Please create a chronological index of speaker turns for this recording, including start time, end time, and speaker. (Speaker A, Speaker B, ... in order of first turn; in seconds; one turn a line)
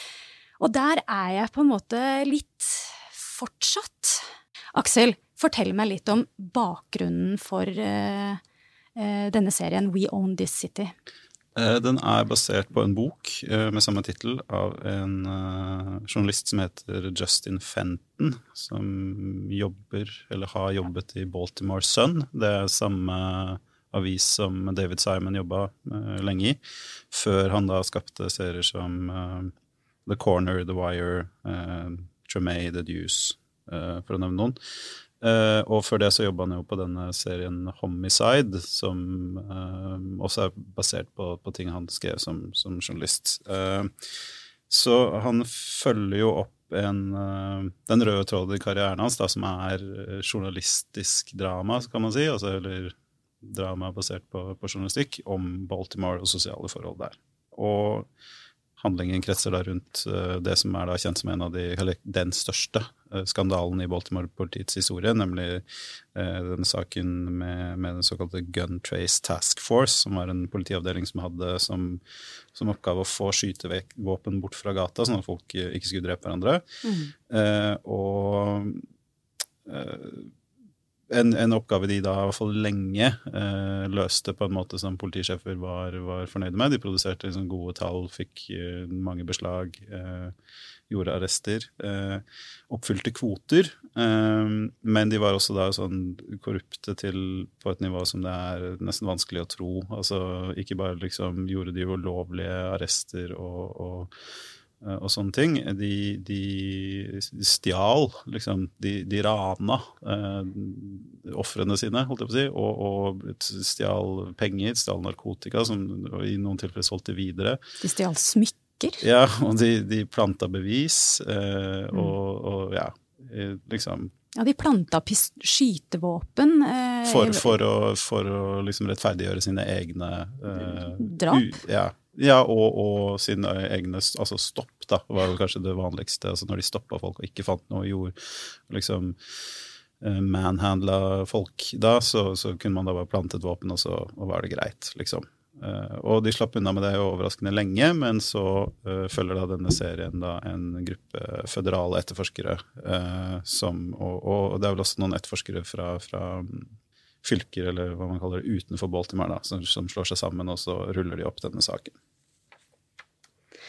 Speaker A: 0.6-8.4
Speaker A: 8.9-10.9
Speaker B: 11.6-26.6
Speaker B: 27.1-29.5
Speaker B: 30.1-34.6
Speaker B: 35.2-43.9
Speaker B: 44.7-58.1
Speaker B: 58.8-65.6
Speaker B: 66.1-72.0
Speaker B: 72.5-76.6
Speaker A: 76.8-77.1
Speaker B: 77.3-78.8
Speaker B: 79.7-80.3
Speaker B: 81.1-90.3
Speaker B: 90.9-104.1
Speaker B: 104.8-117.6
Speaker A: 117.8-119.0
Speaker B: 119.0-124.1
Speaker A: 124.3-127.5
Speaker B: 127.0-156.7
Speaker A: 130.9-131.4
Speaker B: 157.2-161.9